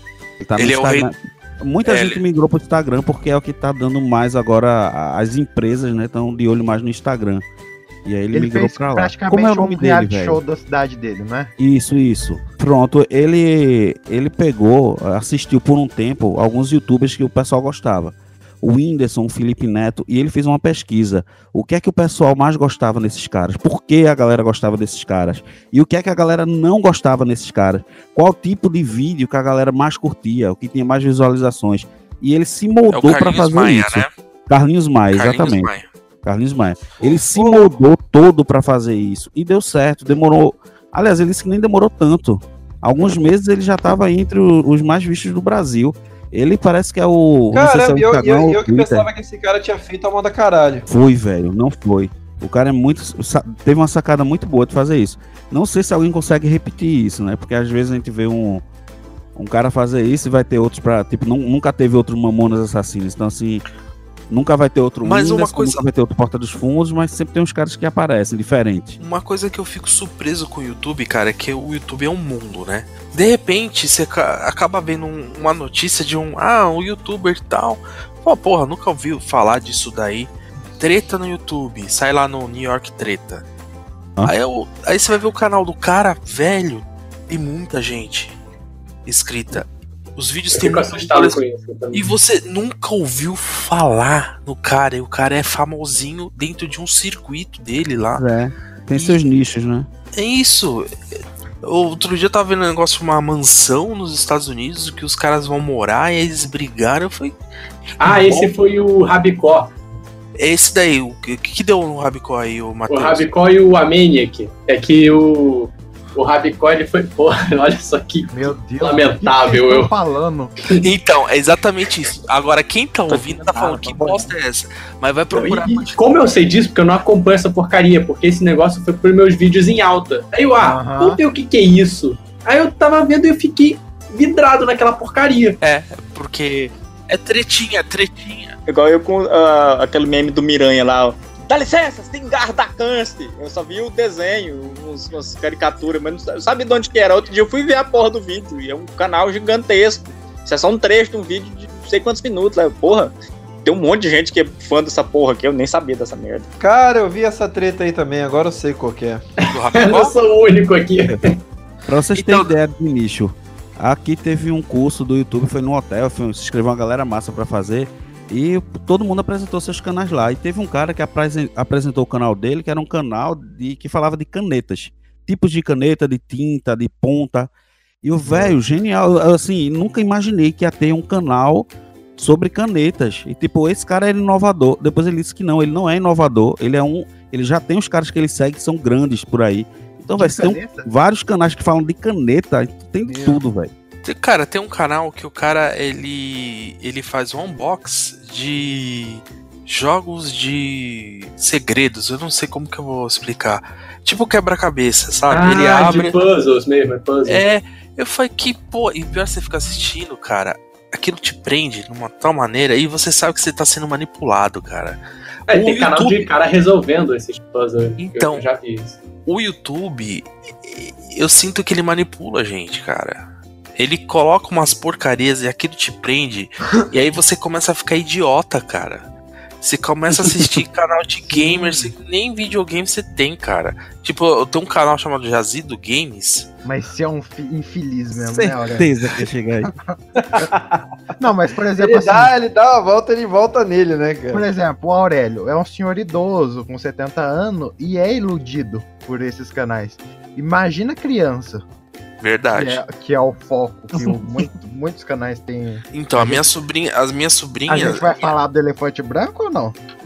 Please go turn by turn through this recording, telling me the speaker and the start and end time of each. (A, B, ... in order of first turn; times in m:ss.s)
0:00.4-0:07.4 A
0:00.6-0:01.1 B
0:01.8-0:02.2 B
0:08.0-0:10.4 A
0:08.3-0:11.5 C
0:11.6-0:35.7 A
0:32.9-0:34.1 B
0:35.1-0:35.9 B
0:36.2-0:49.1 A
0:37.0-0:37.7 D
0:47.5-0:50.9 D
0:50.9-0:58.6 A
0:59.4-1:03.6 A
1:04.3-1:09.0 A
1:05.0-1:05.8 B
1:09.0-1:23.4 B
1:24.2-1:28.3 B
1:29.0-1:29.6 B
1:30.2-1:31.4 B
1:30.5-1:32.1 E
1:31.9-1:38.2 B
1:38.2-1:39.9 A
1:40.1-1:40.9 B
1:41.6-1:47.3 B
1:48.0-1:49.7 E
1:48.0-1:48.5 B
1:50.4-1:53.3 B
1:52.9-1:59.9 E
1:58.3-2:00.5 C
2:00.8-2:06.0 B
2:03.1-2:04.3 F
2:05.3-2:15.6 E
2:10.6-2:11.2 C
2:15.6-2:18.6 B
2:18.7-2:36.4 F
2:36.6-2:39.2 D
2:39.4-2:41.4 E
2:39.5-2:40.1 B
2:41.9-2:57.5 A
2:42.1-2:42.5 B
2:58.0-3:13.7 A
3:10.2-3:10.9 C
3:13.0-3:13.4 C
3:14.0-3:26.2 B
3:25.3-3:27.4 E
3:27.2-3:35.0 B
3:35.5-3:39.0 E
3:35.5-3:36.2 B
3:38.0-3:38.4 B
3:39.2-3:49.1 B
3:49.6-3:56.5 B
3:51.3-3:51.9 C
3:56.6-3:58.9 C
3:58.1-3:59.7 A
4:00.5-4:00.8 D
4:01.2-4:02.3 C
4:01.8-4:04.4 D
4:04.3-4:11.6 C
4:12.2-4:12.8 B
4:12.5-4:16.4 C
4:15.9-4:18.3 B
4:17.7-4:19.8 C